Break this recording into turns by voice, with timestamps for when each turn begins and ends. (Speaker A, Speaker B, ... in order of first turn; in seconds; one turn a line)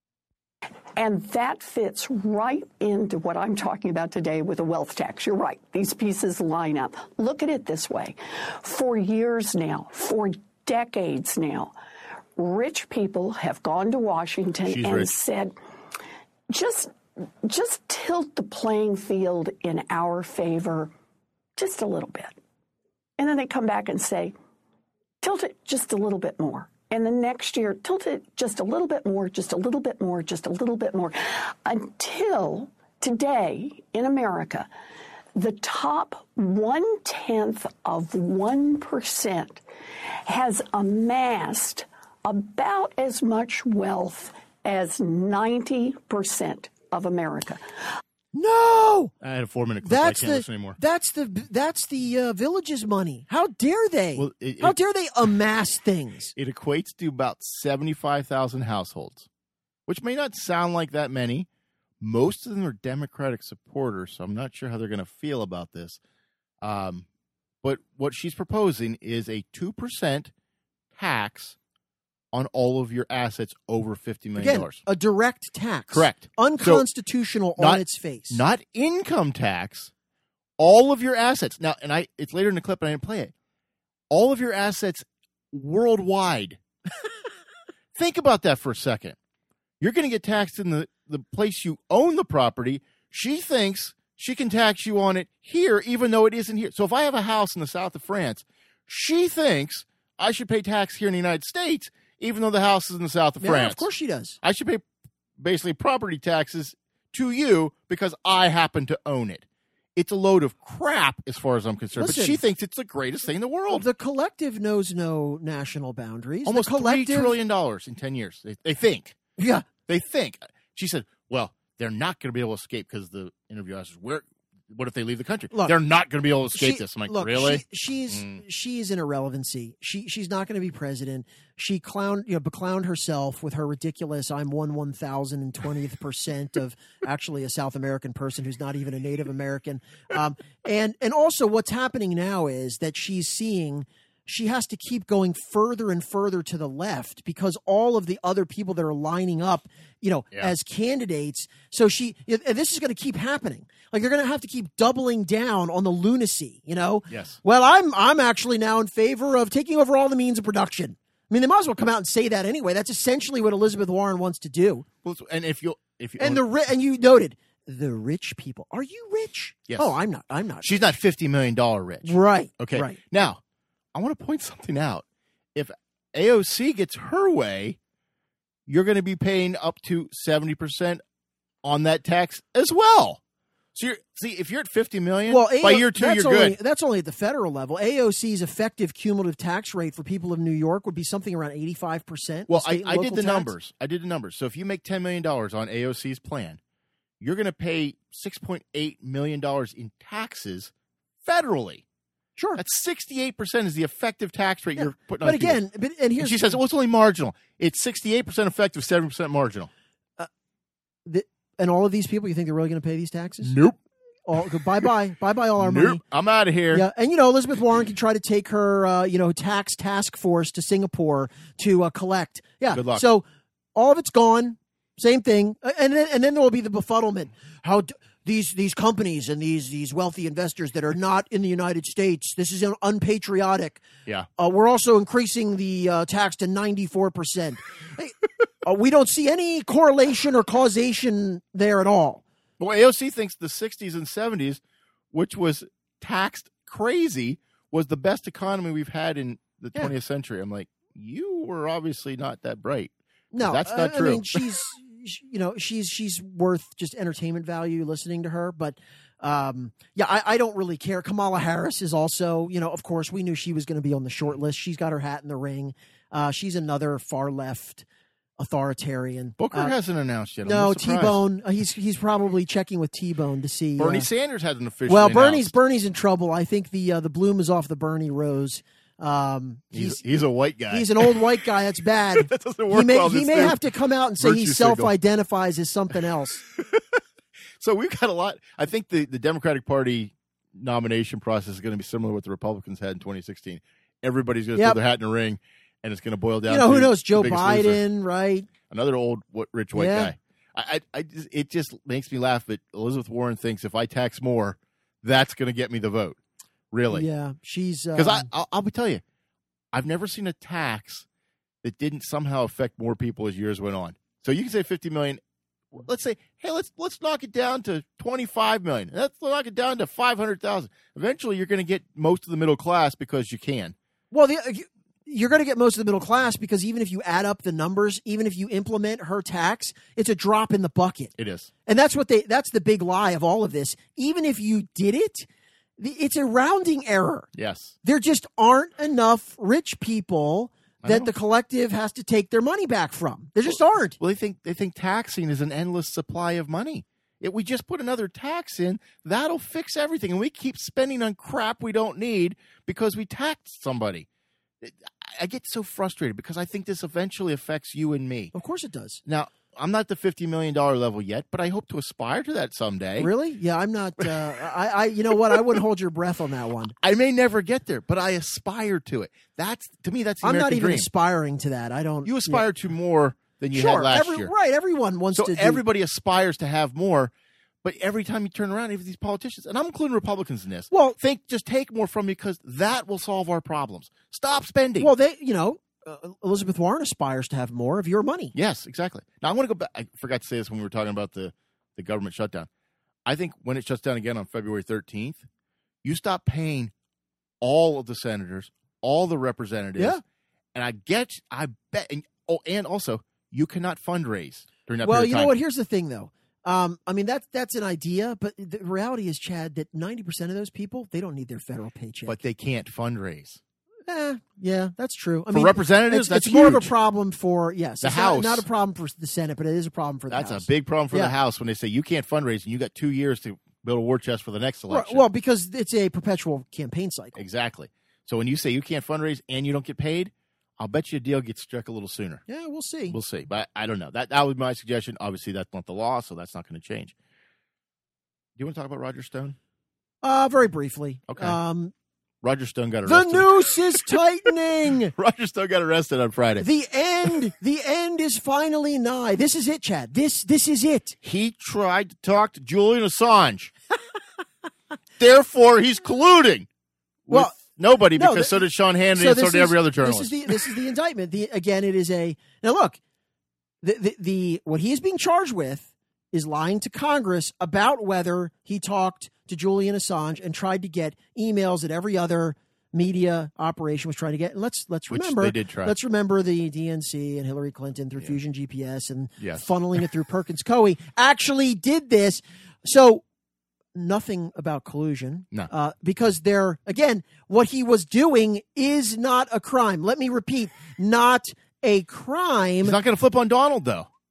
Speaker A: 0.9-11.7
Speaker A: 12.4-15.5
Speaker B: 14.7-15.1
Speaker A: 16.5-20.9
Speaker A: 21.6-22.3
Speaker A: 23.2-24.3
Speaker A: 25.2-34.7
Speaker A: 35.4-39.6
Speaker A: 40.2-47.6
Speaker C: 48.3-49.1
Speaker B: 49.2-50.8
Speaker C: 49.8-56.3
Speaker B: 54.1-54.8
Speaker B: 56.4-59.3
Speaker B: 59.9-61.5
Speaker B: 62.0-66.0
Speaker B: 66.6-67.0
Speaker B: 67.6-70.3
Speaker B: 70.9-71.5
Speaker B: 72.3-74.8
Speaker C: 74.3-78.4
Speaker B: 75.9-76.8
Speaker B: 77.6-79.9
Speaker B: 80.6-83.3
Speaker B: 84.1-86.6
Speaker B: 87.9-89.2
Speaker B: 89.8-103.9
Speaker C: 103.4-104.4
Speaker B: 104.4-104.8
Speaker B: 105.4-109.4
Speaker B: 110.0-113.9
Speaker C: 112.0-112.4
Speaker C: 113.7-117.3
Speaker B: 116.4-119.2
Speaker C: 119.4-119.7
Speaker B: 119.8-128.4
Speaker C: 126.5-164.8
Speaker B: 157.1-157.4
Speaker B: 165.0-166.4
Speaker C: 166.2-170.8
Speaker B: 169.7-169.9
Speaker B: 170.6-173.4
Speaker C: 172.0-173.0
Speaker B: 173.9-177.8
Speaker B: 178.7-181.0
Speaker B: 181.6-183.2
Speaker B: 183.7-186.6
Speaker C: 185.3-193.5
Speaker B: 192.5-196.6
Speaker B: 197.2-200.7
Speaker B: 201.2-201.8
Speaker B: 202.6-205.6
Speaker C: 204.8-206.6
Speaker B: 206.2-209.7
Speaker C: 211.0-213.5
Speaker B: 213.4-213.8
Speaker C: 214.3-216.0
Speaker B: 214.4-214.8
Speaker B: 215.6-216.8
Speaker C: 216.7-233.8
Speaker B: 222.7-223.0
Speaker C: 234.4-242.2
Speaker B: 242.6-244.6
Speaker B: 245.1-254.6
Speaker C: 253.3-267.9
Speaker C: 268.4-269.7
Speaker B: 269.4-271.1
Speaker C: 270.4-274.1
Speaker B: 273.8-275.5
Speaker C: 274.9-280.0
Speaker B: 279.7-281.2
Speaker C: 280.7-286.4
Speaker B: 282.1-283.6
Speaker B: 284.2-284.9
Speaker B: 286.5-286.9
Speaker B: 287.6-297.8
Speaker C: 296.5-298.5
Speaker B: 298.7-306.2
Speaker C: 299.7-300.1
Speaker B: 306.7-307.1
Speaker C: 306.9-308.3
Speaker B: 307.9-309.0
Speaker B: 309.7-311.1
Speaker B: 311.6-315.2
Speaker B: 315.7-323.8
Speaker C: 324.1-331.1
Speaker B: 331.2-331.5
Speaker C: 331.6-335.3
Speaker C: 335.8-337.3
Speaker B: 337.3-337.8
Speaker C: 337.8-344.0
Speaker B: 340.8-341.1
Speaker B: 343.5-354.1
Speaker B: 354.6-358.3
Speaker C: 358.3-359.0
Speaker B: 359.1-363.1
Speaker C: 363.0-366.7
Speaker B: 365.3-365.6
Speaker B: 366.8-370.9
Speaker C: 370.2-372.4
Speaker B: 372.0-374.3
Speaker C: 373.5-375.6
Speaker B: 375.1-377.1
Speaker B: 377.6-384.9
Speaker C: 380.7-381.0
Speaker C: 384.8-388.3
Speaker B: 388.3-392.5
Speaker B: 393.1-395.2
Speaker B: 395.8-396.7
Speaker B: 397.4-400.0
Speaker B: 400.5-405.3
Speaker C: 404.8-412.2
Speaker B: 412.1-413.4
Speaker C: 413.9-421.1
Speaker B: 415.3-416.7
Speaker B: 417.8-418.4
Speaker B: 420.1-425.0
Speaker C: 424.7-427.1
Speaker B: 427.1-432.2
Speaker C: 432.3-432.9
Speaker B: 432.9-436.9
Speaker B: 438.4-439.4
Speaker C: 440.0-441.7
Speaker B: 441.1-441.4
Speaker B: 442.2-444.0
Speaker C: 442.9-444.9
Speaker B: 444.9-446.5
Speaker C: 446.4-451.0
Speaker B: 451.0-453.5
Speaker B: 455.0-456.5
Speaker B: 457.1-460.5
Speaker C: 457.9-458.4
Speaker C: 458.9-462.8
Speaker C: 463.6-483.0
Speaker B: 474.9-475.7
Speaker B: 479.2-479.5
Speaker C: 483.7-492.8
Speaker B: 492.6-493.9